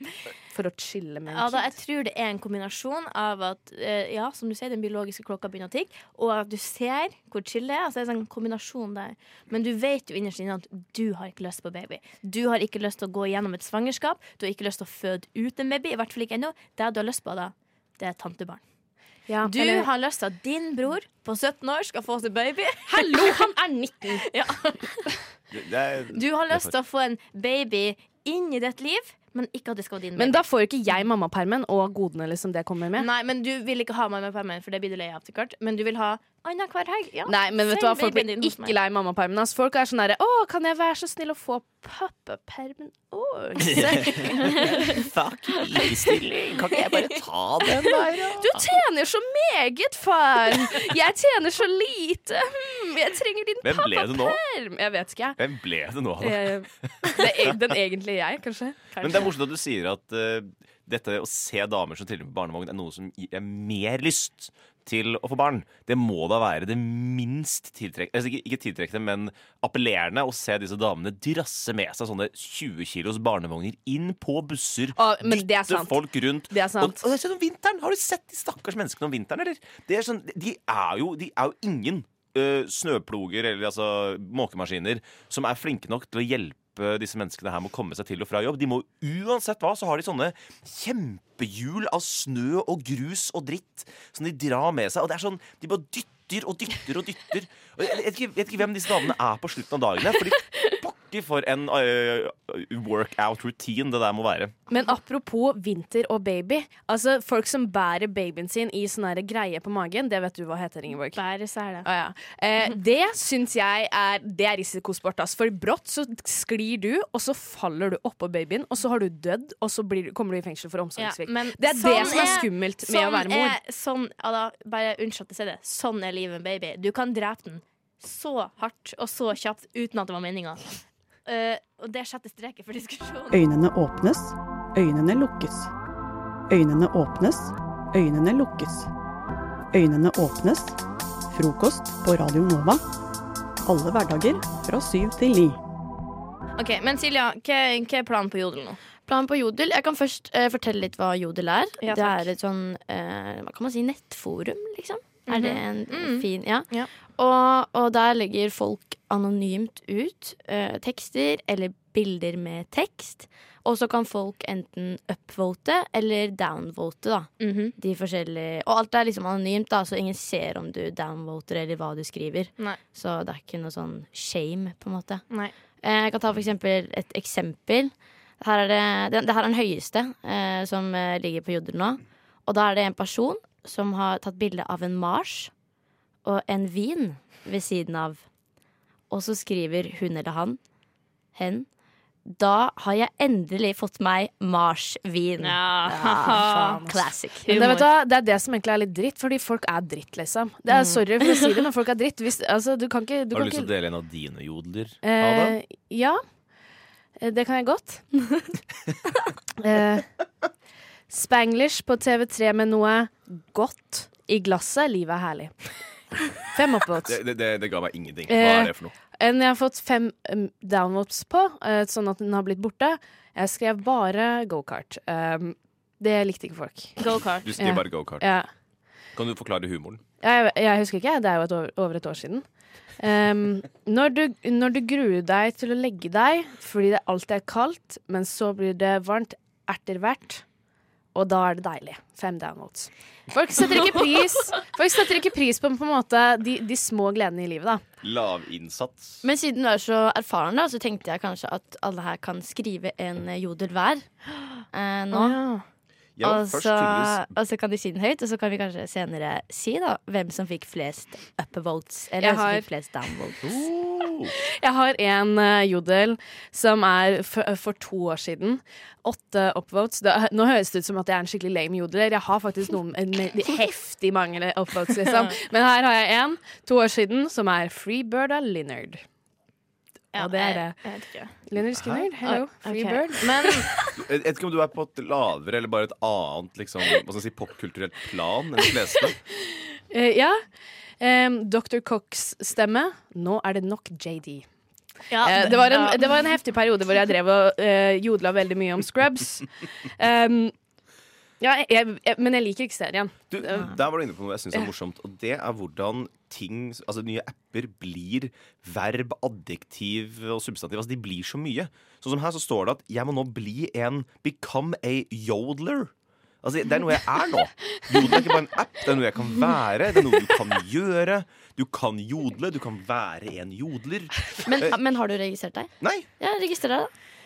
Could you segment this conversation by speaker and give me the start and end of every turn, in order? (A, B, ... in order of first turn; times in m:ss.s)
0:00.5-0:01.7 A
0:01.3-0:18.6 B
0:19.3-0:19.9 A
0:19.4-0:23.5 B
0:22.8-0:24.2 A
0:24.0-0:25.1 B
0:25.5-0:26.7 C
0:26.1-0:31.0 B
0:30.2-0:33.1 A
0:33.0-0:38.8 B
0:37.2-0:44.1 A
0:43.0-0:47.2 B
0:43.6-0:44.3 C
0:45.1-0:48.7 C
0:48.4-0:55.4 A
0:53.6-0:54.4 C
0:55.4-0:56.5 C
0:56.2-0:59.3 A
0:59.0-1:44.5 C
1:14.9-1:17.0 A
1:44.7-1:51.2 A
1:50.9-1:51.9 B
1:51.8-2:03.6 A
2:01.0-2:13.4 B
2:13.3-2:15.7 D
2:16.5-2:18.9 D
2:19.7-2:20.8 D
2:21.3-2:22.8 D
2:23.6-2:25.6 D
2:26.6-2:28.8 B
2:29.0-2:55.2 E
2:31.8-2:32.3 B
2:35.2-2:36.9 B
2:47.4-2:47.8 B
2:55.8-3:05.5 E
3:06.2-3:08.2 E
3:09.1-3:10.6 E
3:11.3-3:11.7 E
3:12.2-3:17.6 E
3:15.4-3:17.9 B
3:16.3-3:23.7 A
3:23.3-3:25.5 C
3:25.0-3:26.2 A
3:27.2-3:28.0 A
3:29.6-3:30.0 A
3:31.1-3:35.5 A
3:36.5-3:37.2 A
3:37.0-3:38.9 C
3:38.3-3:46.9 A
3:47.0-3:47.5 B
3:47.4-3:48.3 C
3:47.6-3:48.5 A
3:49.2-3:50.0 C
3:50.2-3:52.4 A
3:53.0-4:00.4 A
4:01.1-4:07.8 A
4:08.0-4:09.2 C
4:09.2-4:14.0 E
4:14.7-4:15.4 E
4:15.1-4:15.6 B
4:16.2-4:17.3 C
4:16.2-4:23.4 E
4:22.2-4:22.7 A
4:23.4-4:24.3 C
4:24.4-4:39.0 A
4:35.0-4:35.4 B
4:40.1-4:41.4 B
4:40.2-4:40.8 A
4:41.4-4:43.6 A
4:41.8-4:42.1 C
4:42.2-4:43.9 B
4:44.0-4:49.2 C
4:49.9-4:50.4 A
4:51.0-4:54.5 A
4:55.1-4:56.3 B
4:55.2-5:00.5 A
5:01.4-5:03.7 A
5:03.3-5:15.9 C
5:16.4-5:24.8 C
5:24.4-5:26.9 E
5:25.8-5:26.1 C